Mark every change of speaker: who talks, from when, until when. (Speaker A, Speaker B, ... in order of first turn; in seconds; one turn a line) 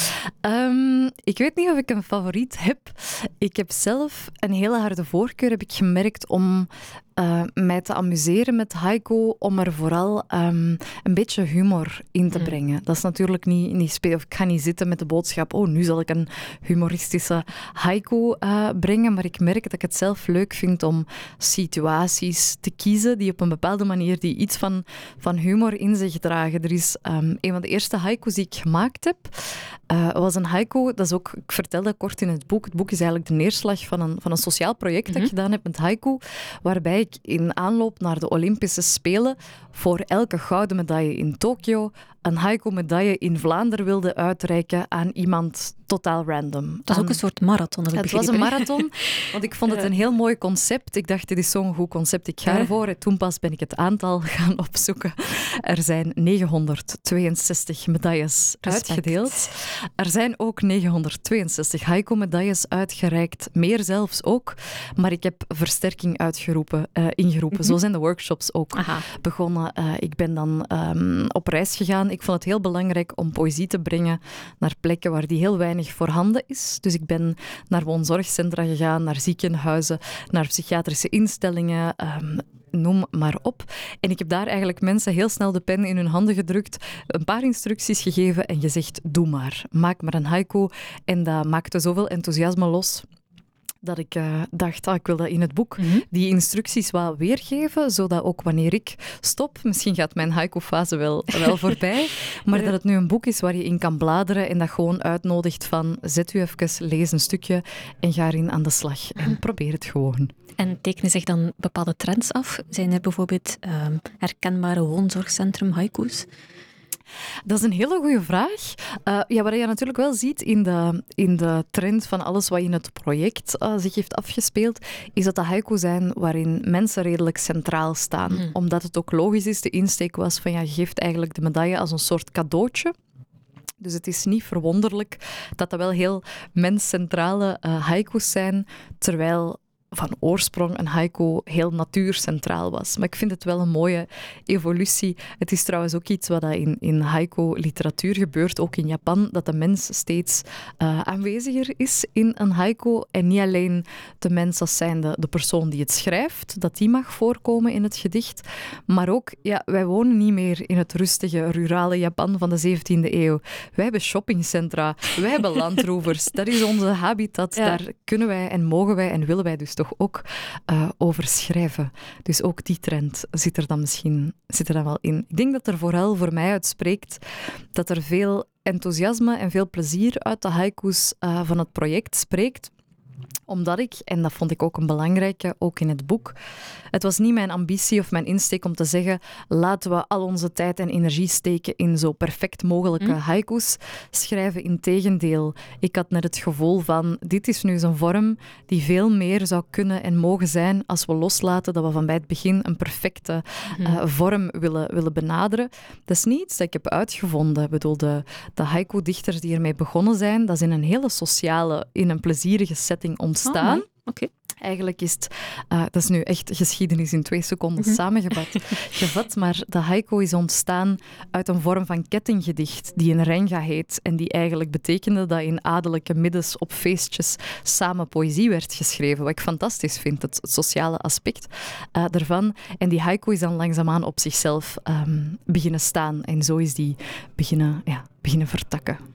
Speaker A: 0.4-47.2
Speaker B: 12.3-12.6
Speaker B: 35.1-35.3
Speaker B: 46.9-49.9
Speaker A: 47.9-93.0
Speaker B: 58.6-59.5
Speaker B: 68.7-69.0
Speaker A: 93.8-110.3
Speaker B: 95.8-96.0
Speaker B: 110.6-116.3
Speaker A: 117.5-132.9
Speaker B: 128.3-128.6
Speaker A: 133.8-177.2
Speaker A: 177.7-182.7
Speaker A: 183.5-186.4
Speaker A: 186.9-213.9
Speaker B: 203.7-204.0
Speaker B: 213.4-214.3
Speaker A: 214.6-239.0
Speaker B: 217.8-218.9